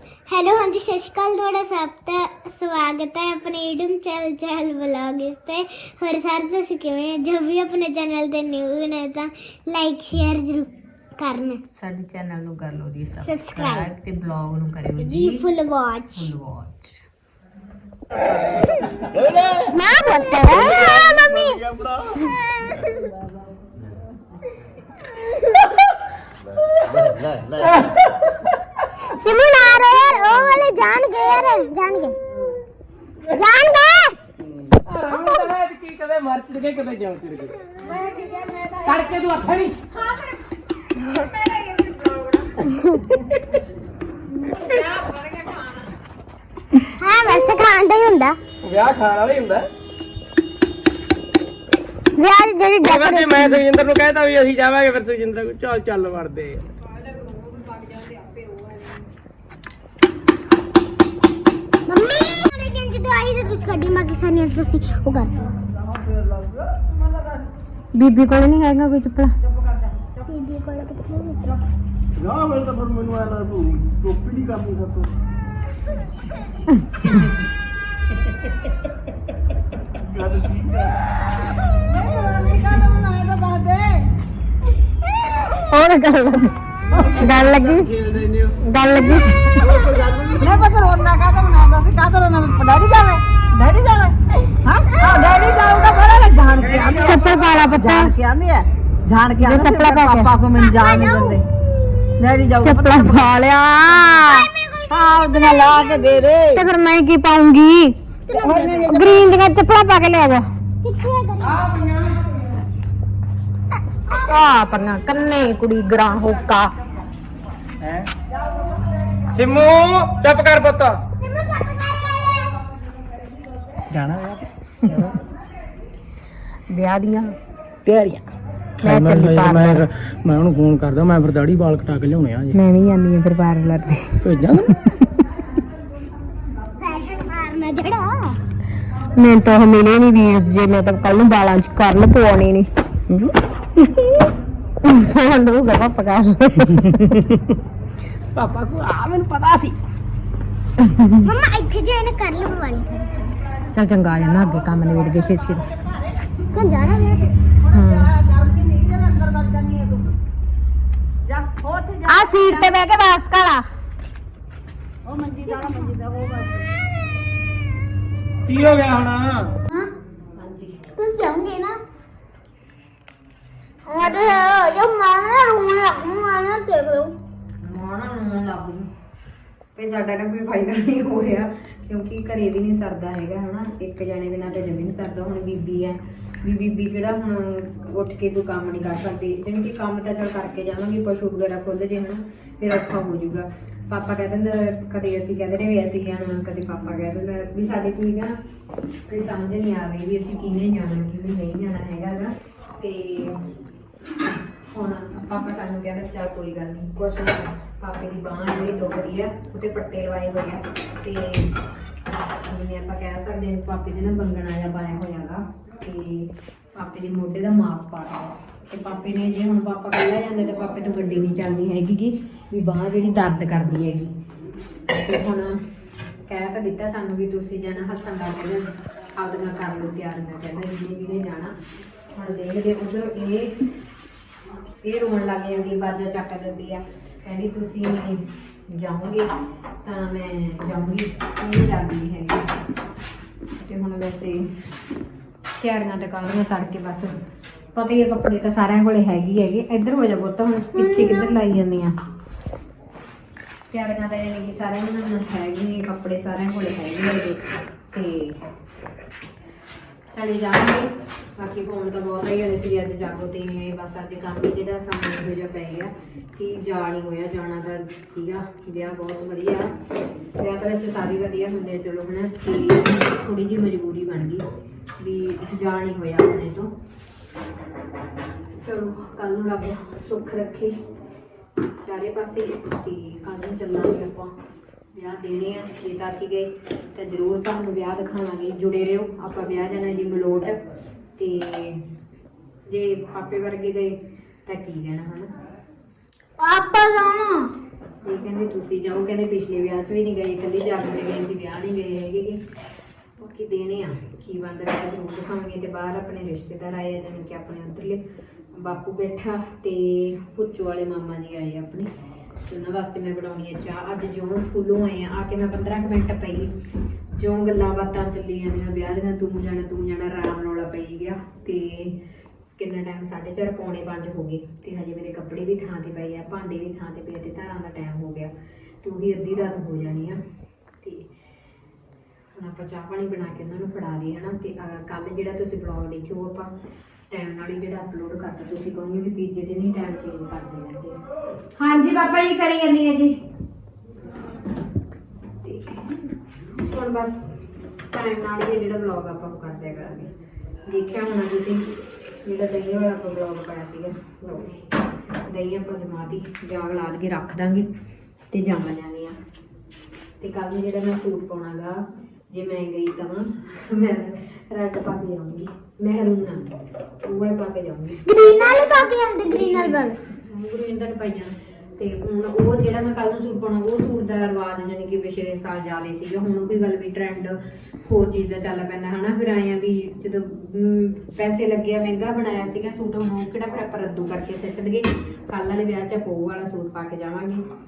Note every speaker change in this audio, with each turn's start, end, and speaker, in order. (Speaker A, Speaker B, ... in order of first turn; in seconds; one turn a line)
Speaker A: 0.3-11.6
Speaker B: 11.8-15.5
Speaker A: 13.2-13.9
Speaker A: 15.0-16.3
Speaker B: 16.1-17.0
Speaker B: 18.1-19.0
Speaker A: 19.5-23.1
Speaker C: 27.6-27.9
Speaker A: 28.9-32.2
Speaker A: 33.3-34.2
Speaker C: 34.6-37.5
Speaker A: 35.2-35.5
Speaker B: 37.8-39.1
Speaker C: 38.9-39.8
Speaker B: 39.9-40.4
Speaker B: 41.0-42.7
Speaker A: 42.7-43.1
Speaker B: 44.4-46.0
Speaker A: 47.0-48.4
Speaker C: 48.6-49.7
Speaker A: 52.1-53.6
Speaker C: 52.8-56.7
Speaker B: 57.0-58.8
Speaker A: 61.9-65.5
Speaker B: 67.9-69.3
Speaker A: 70.2-71.5
Speaker D: 72.3-74.9
Speaker B: 76.7-77.3
Speaker E: 81.9-84.0
Speaker B: 85.6-86.5
Speaker E: 87.0-87.3
Speaker B: 87.1-87.9
Speaker B: 88.6-89.6
Speaker E: 89.9-101.4
Speaker C: 96.7-97.1
Speaker B: 97.0-98.1
Speaker B: 99.4-100.3
Speaker A: 100.5-102.3
Speaker E: 102.2-103.3
Speaker B: 102.6-104.5
Speaker A: 104.1-106.3
Speaker E: 104.9-106.6
Speaker B: 106.5-108.0
Speaker A: 108.3-109.0
Speaker E: 108.3-109.3
Speaker B: 108.8-110.4
Speaker A: 110.8-111.7
Speaker C: 111.6-112.3
Speaker B: 114.1-116.7
Speaker C: 117.8-118.1
Speaker C: 119.3-121.0
Speaker A: 121.2-122.6
Speaker C: 123.9-125.1
Speaker B: 126.7-127.3
Speaker C: 127.8-128.2
Speaker B: 128.8-129.8
Speaker C: 128.8-132.6
Speaker B: 132.5-134.2
Speaker C: 134.2-134.8
Speaker A: 136.8-138.4
Speaker B: 139.1-143.2
Speaker B: 144.8-147.3
Speaker C: 148.3-149.8
Speaker B: 150.8-151.2
Speaker A: 151.2-153.3
Speaker B: 153.7-155.7
Speaker A: 156.5-157.3
Speaker B: 157.7-158.1
Speaker E: 157.7-160.1
Speaker E: 161.3-162.7
Speaker B: 162.1-163.6
Speaker E: 165.1-166.6
Speaker C: 168.5-169.5
Speaker B: 170.3-170.8
Speaker A: 170.9-171.8
Speaker A: 173.8-177.2
Speaker B: 177.6-178.9
Speaker B: 179.8-198.4
Speaker B: 199.1-203.4
Speaker B: 204.7-211.5
Speaker B: 212.4-224.1
Speaker B: 224.9-225.6
Speaker B: 226.3-231.5
Speaker B: 232.1-233.6
Speaker B: 234.8-239.3
Speaker B: 239.8-242.5
Speaker B: 243.6-244.4
Speaker B: 245.6-247.1
Speaker B: 247.7-251.9
Speaker A: 250.8-251.3
Speaker B: 253.7-258.5
Speaker B: 260.1-260.9
Speaker B: 261.4-269.7
Speaker B: 270.4-274.4
Speaker B: 275.0-276.7
Speaker B: 278.6-280.7
Speaker B: 281.8-284.4
Speaker B: 284.9-290.6
Speaker B: 291.2-291.8
Speaker B: 292.7-295.3
Speaker A: 296.4-297.5
Speaker B: 298.0-302.4
Speaker B: 303.2-308.0
Speaker B: 308.5-311.9
Speaker B: 312.5-316.5
Speaker B: 317.1-322.0
Speaker B: 322.6-328.3
Speaker B: 328.8-330.2
Speaker B: 330.8-331.1
Speaker B: 332.3-336.5
Speaker B: 337.1-341.0
Speaker B: 341.6-343.1
Speaker B: 345.4-345.9
Speaker B: 346.6-347.2
Speaker B: 347.9-350.1
Speaker B: 350.7-351.7
Speaker B: 352.2-354.7
Speaker B: 355.3-357.7
Speaker B: 358.3-359.2
Speaker B: 360.2-387.4
Speaker A: 368.0-370.1